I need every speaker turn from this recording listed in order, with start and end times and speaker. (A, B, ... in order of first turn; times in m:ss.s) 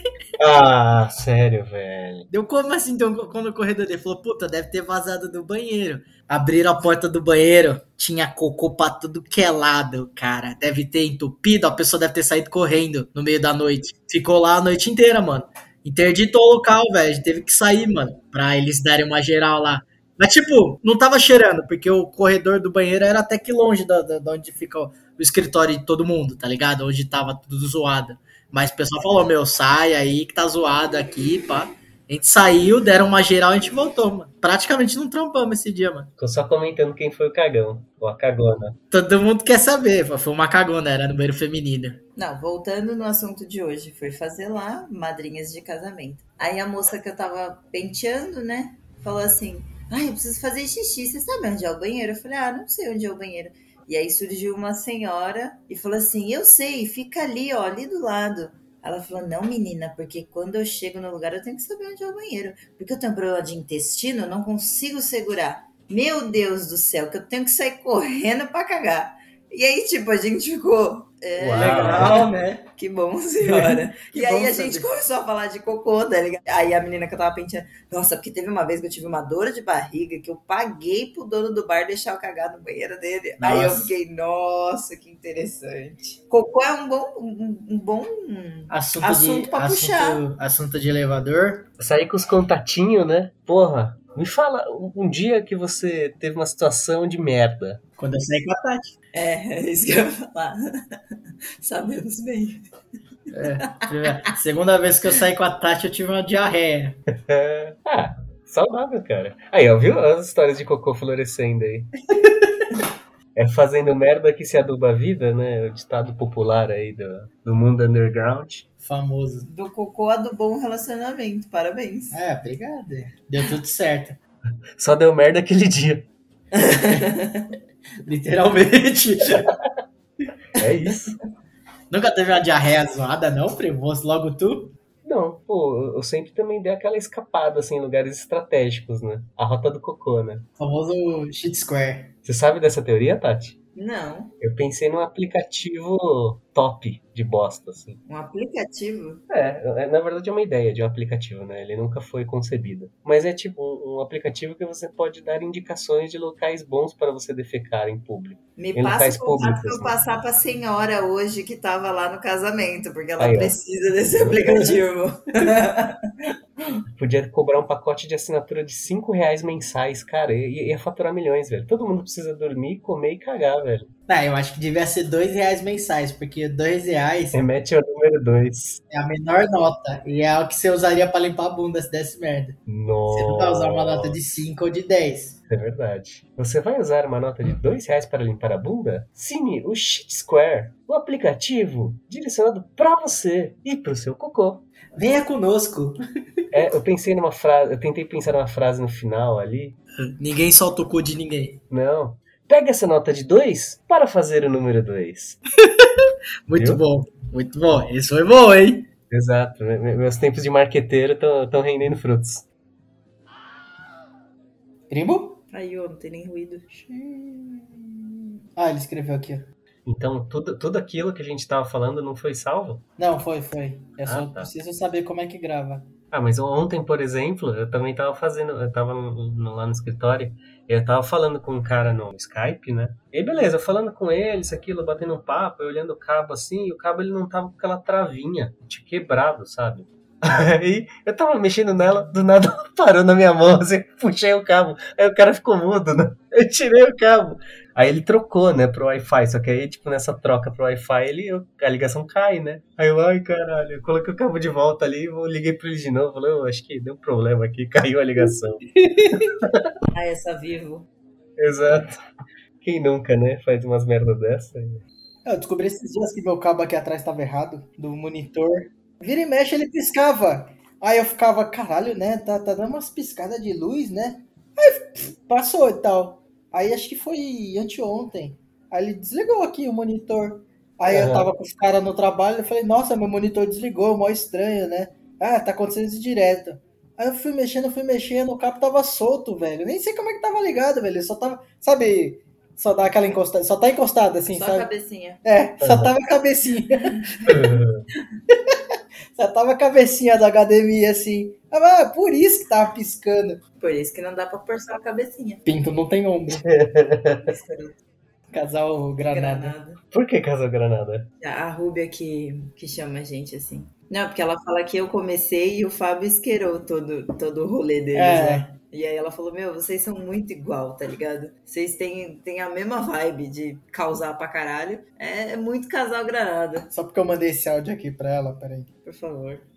0:00.4-0:02.3 A
0:02.3-0:36.1 B
0:36.2-0:38.8 A
0:38.9-0:42.0 B
0:42.2-1:30.2 C
1:11.4-1:12.3 A
1:11.6-1:12.7 B
1:13.4-1:14.9 B
1:23.4-1:23.9 B
1:28.7-1:31.7 B
1:31.8-1:37.8 A
1:38.0-1:38.9 B
1:39.1-1:40.8 C
1:41.6-1:42.6 C
1:43.3-1:47.0 B
1:47.2-1:51.9 A
1:52.2-1:52.5 B
1:53.3-1:58.6 A
1:58.8-1:59.5 B
1:59.4-2:02.2 C
2:02.1-2:04.2 B
2:04.8-2:06.1 A
2:06.5-2:07.5 C
2:08.0-2:09.5 B
2:10.6-2:11.2 A
2:11.9-2:14.7 B
2:15.0-2:20.4 A
2:20.6-2:22.1 B
2:22.2-2:23.6 A
2:23.7-2:24.3 C
2:24.4-2:28.0 A
2:28.0-2:29.2 C
2:29.3-2:40.0 A
2:38.6-2:46.1 C
2:43.2-2:43.6 A
2:47.0-2:53.9 A
2:54.1-2:57.4 B
2:57.3-2:58.8 A
2:58.9-3:02.6 B
3:02.7-3:04.2 A
3:03.1-3:05.4 B
3:05.5-3:14.6 A
3:15.0-3:16.0 B
3:16.5-3:19.8 A
3:20.0-3:21.6 B
3:21.7-3:25.4 A
3:25.6-3:28.9 B
3:26.5-3:26.8 A
3:29.1-3:32.4 A
3:34.9-3:35.4 B
3:35.5-3:36.6 C
3:36.7-3:39.5 B
3:39.8-3:42.8 A
3:43.0-3:45.9 B
3:44.0-3:44.5 A
3:46.1-4:19.7 A
4:18.8-4:19.4 B
4:19.9-4:20.9 C
4:21.4-4:22.0 A
4:22.6-4:24.8 A
4:25.2-4:54.7 B
4:40.9-4:41.3 A
4:54.3-4:55.2 C
4:55.2-4:56.9 B
4:55.6-4:55.9 A
4:57.2-4:57.8 A
4:59.1-5:03.4 B
5:03.6-5:05.4 C
5:05.4-5:06.4 B
5:06.4-5:07.3 A
5:07.2-5:07.8 C
5:08.3-5:09.5 B
5:09.0-5:09.8 C
5:09.9-5:11.1 A
5:11.2-5:26.7 C
5:17.9-5:18.5 B
5:26.7-5:28.7 B
5:28.8-5:29.5 C